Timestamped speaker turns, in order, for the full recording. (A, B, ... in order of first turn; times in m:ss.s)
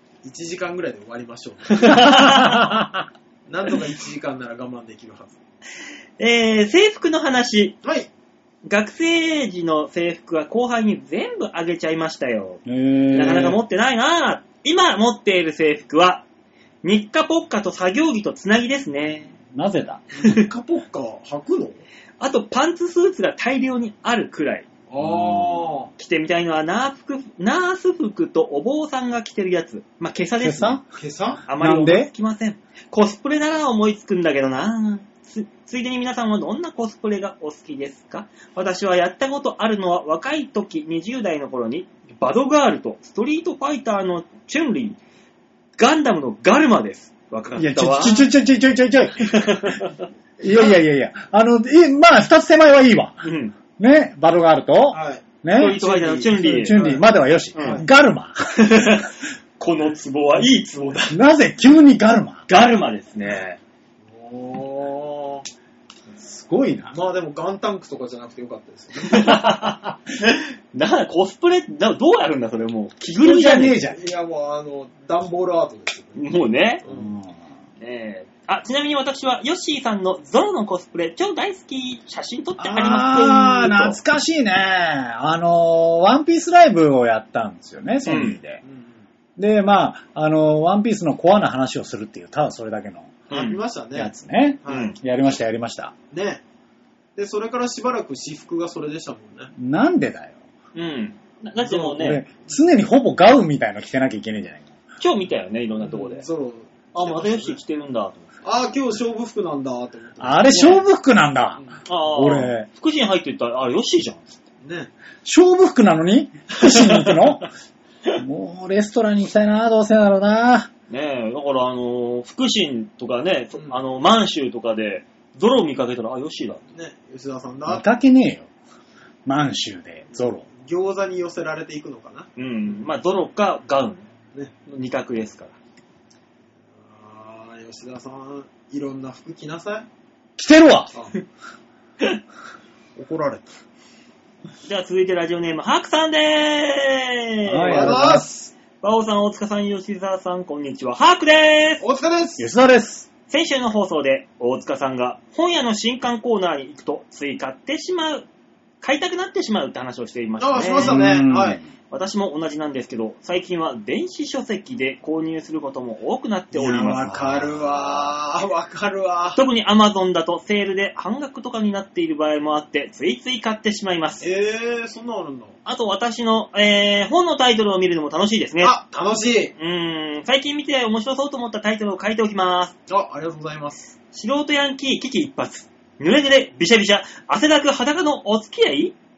0:00.2-0:02.1 A
0:01.7-0:02.7 B
0:02.1-0:03.0 C
0:03.5-0:05.4 A
0:06.2-0:07.8 B
0:07.8-0:08.1 A
0:08.6-0:16.2 B
0:12.6-0:13.6 C
0:16.8-0:19.4 B
0:19.5-0:20.0 C
0:20.2-0:21.8 A
0:22.2-0:24.7 B
0:24.9-0:25.9 A
0:25.0-0:25.8 C
0:26.0-0:30.8 B
0:30.4-0:30.8 C
0:31.0-0:31.4 A
0:31.5-0:45.0 B
0:31.6-0:32.1 C
0:45.8-0:48.3 B
0:47.6-0:49.8 C
0:49.2-0:50.1 B
0:50.4-0:53.2 C
0:53.2-0:53.6 B
0:53.8-0:55.9 C
0:54.9-0:57.1 A
0:55.5-0:56.8 B
0:56.4-0:59.0 C
0:57.5-0:57.8 B
0:57.6-0:57.9 A
0:58.6-1:01.2 B
1:01.1-1:02.4 C
1:02.5-1:03.6 B
1:04.1-1:05.5 A
1:06.2-1:07.0 C
1:06.9-1:09.5 A
1:09.0-1:13.8 B
1:13.2-1:14.0 C
1:13.9-1:16.2 A
1:16.2-1:16.8 B
1:16.8-1:17.1 A
1:16.9-1:17.3 C
1:17.8-1:24.0 B
1:22.6-1:28.6 C
1:28.0-1:28.4 B
1:28.6-1:29.0 A
1:29.4-1:33.2 C
1:33.3-1:34.1 A
1:33.3-1:33.6 B
1:34.0-1:35.9 C
1:34.6-1:34.9 A
1:34.7-1:35.0 B
1:36.1-1:36.4 A
1:37.2-1:39.5 A
1:39.6-1:40.4 C
1:40.8-1:42.2 B
1:41.6-1:44.7 C
1:45.0-1:46.2 B
1:45.8-1:47.6 A
1:46.9-1:48.3 B
1:48.4-1:50.8 A
1:50.2-1:52.7 C
1:51.9-1:54.4 B
1:54.6-1:54.9 A
1:55.2-1:57.5 C
1:56.7-1:57.2 B
1:58.2-2:00.7 C
2:00.9-2:06.6 B
2:06.7-2:07.9 A
2:07.7-2:08.5 C
2:09.3-2:10.5 C
2:10.1-2:12.3 A
2:12.4-2:14.1 B
2:14.7-2:15.6 B
2:16.8-2:19.9 A
2:20.4-2:20.9 C
2:23.0-2:23.5 A
2:24.6-2:28.0 B
2:27.5-2:28.3 C
2:27.6-2:28.5 A
2:28.8-2:31.8 B
2:31.8-2:32.5 A
2:32.4-2:33.1 C
2:33.3-2:38.3 B
2:38.8-2:41.0 B
2:40.4-2:41.6 A
2:40.8-2:41.6 C
2:41.9-2:48.2 B
2:46.5-2:49.4 A
2:49.4-2:54.2 B
2:54.2-2:55.6 A
2:55.6-2:58.8 B
2:58.6-2:59.5 A
2:59.6-3:02.8 B
3:02.9-3:03.9 A
3:04.1-3:09.0 B